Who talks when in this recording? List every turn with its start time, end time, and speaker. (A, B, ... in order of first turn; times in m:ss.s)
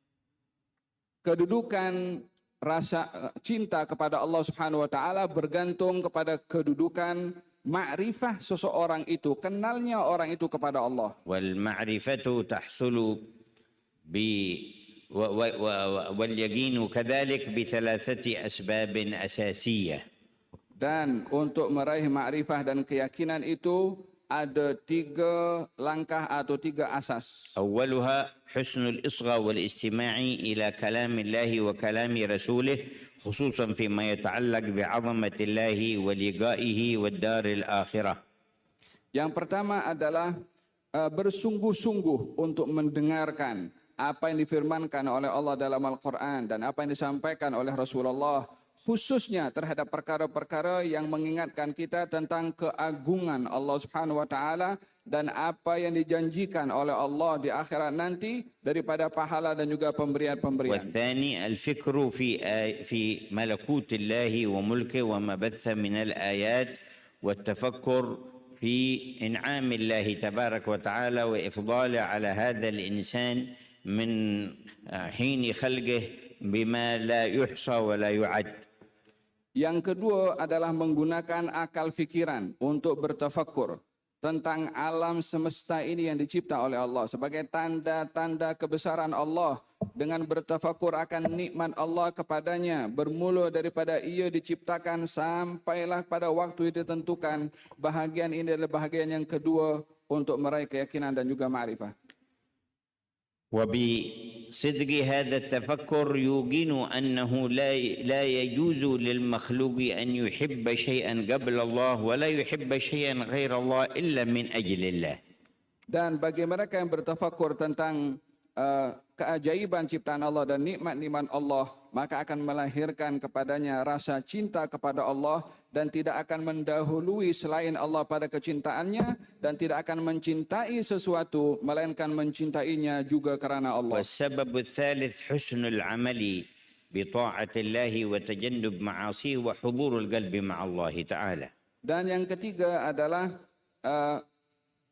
0:01.2-0:11.2 A
0:11.3-0:13.2 B
0:14.1-0:20.0 B
0:20.8-0:27.4 A
0:27.6-0:38.2 B
0:39.1-0:40.3 A
0:41.0-1:00.9 A
1:00.7-1:18.6 B
1:19.6-1:41.9 A
1:43.5-1:55.2 B
1:55.9-2:14.0 A
2:13.9-2:21.5 B
2:21.8-2:23.3 A
2:23.8-2:24.2 A